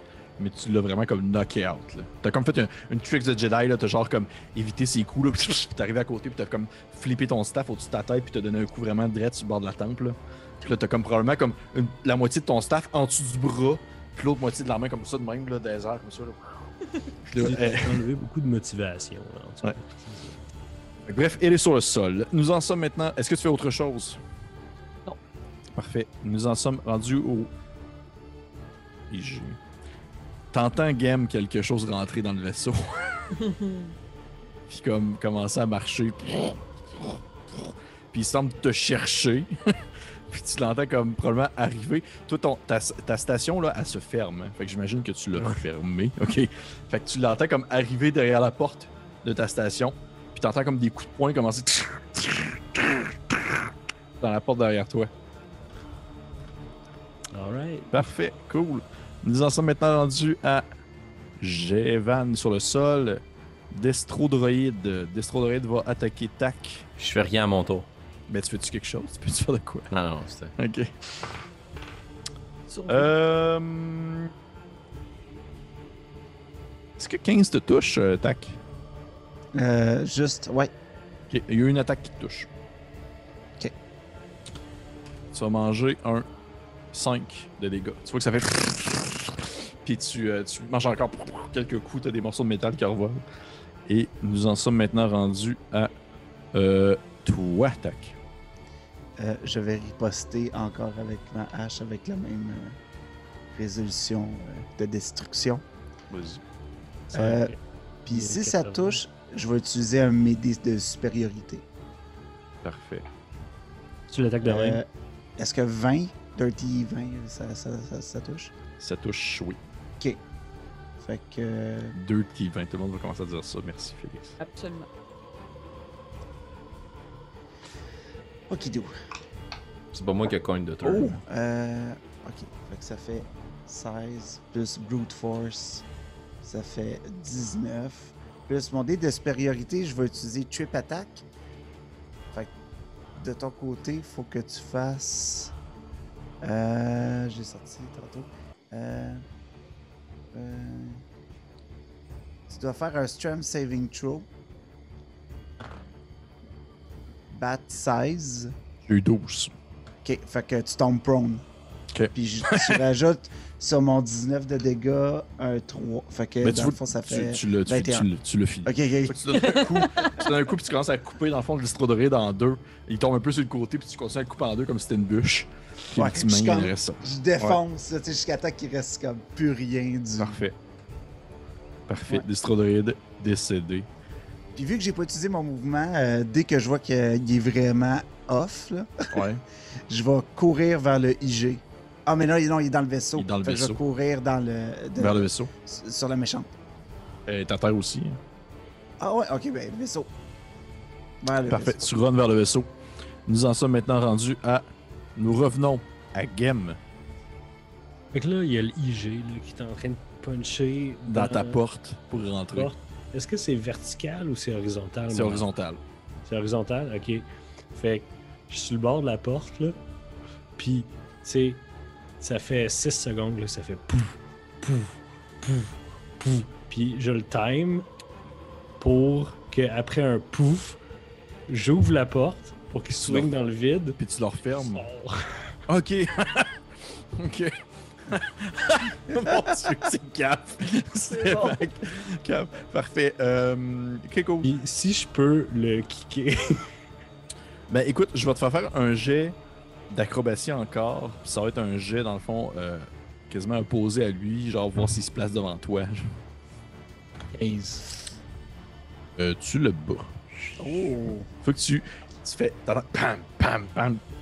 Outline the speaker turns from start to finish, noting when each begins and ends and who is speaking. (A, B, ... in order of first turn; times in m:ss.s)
0:00.4-0:16.4 A
0:17.3-0:18.0 A
0:17.4-0:20.4 B
0:21.1-0:24.2 A
0:25.8-0:27.5 A
0:29.1-0:29.6 A
0:30.5-0:33.3 A
0:33.4-0:34.0 C
0:34.7-0:53.6 A
0:45.4-0:45.6 B
0:54.2-0:55.1 A
0:57.3-0:57.9 B
0:57.9-1:00.7 A
1:01.4-1:06.9 A
1:07.0-1:07.9 D
1:08.3-1:09.9 A
1:09.9-1:10.5 D
1:10.6-1:11.4 A
1:12.7-1:13.1 C
1:12.9-1:14.3 A
1:17.0-1:18.6 A
1:19.5-1:20.7 E
1:21.3-1:22.5 A
1:25.3-1:26.3 A
1:26.9-1:33.2 A
1:33.9-1:35.9 A
1:36.5-1:38.2 A
1:39.2-1:42.8 E
1:43.5-1:45.6 E
1:46.1-1:46.4 A
1:47.1-1:47.6 B
1:47.1-1:47.5 E
1:48.1-1:51.6 E
1:48.1-1:49.0 B
1:52.6-1:53.0 A
1:54.1-1:54.8 B
1:54.4-1:54.8 E
1:55.4-1:58.5 E
1:58.8-1:59.6 A
2:01.0-2:02.0 E
2:02.0-2:04.4 A
2:04.4-2:04.9 C
2:08.5-2:08.9 E
2:09.9-2:11.2 D
2:10.8-2:11.2 A
2:11.3-2:15.8 E
2:16.4-2:21.2 E
2:23.2-2:25.5 E
2:26.4-2:29.2 E
2:30.3-2:31.0 E
2:32.5-2:34.3 E
2:37.3-2:38.5 E
2:38.9-2:39.5 A
2:40.0-2:41.4 E
2:41.9-2:42.8 A
2:42.1-2:48.1 E
2:46.4-2:57.6 A
2:48.6-2:49.6 E
2:49.4-2:50.1 C
2:55.9-3:00.4 E
3:00.2-3:00.6 A
3:01.9-3:03.9 A
3:04.6-3:09.1 E
3:09.1-3:09.4 A
3:09.9-3:16.5 E
3:13.2-3:13.8 A
3:15.0-3:15.5 A
3:17.3-3:18.2 A
3:19.0-3:20.1 E
3:21.2-3:21.9 E
3:21.5-3:22.7 A
3:23.3-3:26.8 A
3:28.1-3:31.6 B
3:31.1-3:32.7 A
3:32.5-3:35.5 B
3:35.1-3:35.8 A
3:36.3-3:39.8 B
3:40.6-3:41.6 B
3:42.2-3:47.9 B
3:48.8-3:50.8 B
3:51.5-3:54.0 B
3:53.1-3:53.3 A
3:54.0-3:54.9 A
3:54.8-3:55.4 B
3:55.7-3:56.6 A
3:57.2-4:04.5 A
4:01.1-4:01.6 C
4:04.4-4:06.7 B
4:07.7-4:09.4 A
4:09.9-4:16.2 A
4:17.3-4:17.9 B
4:19.2-4:20.2 A
4:20.6-4:21.3 E
4:21.4-4:24.0 A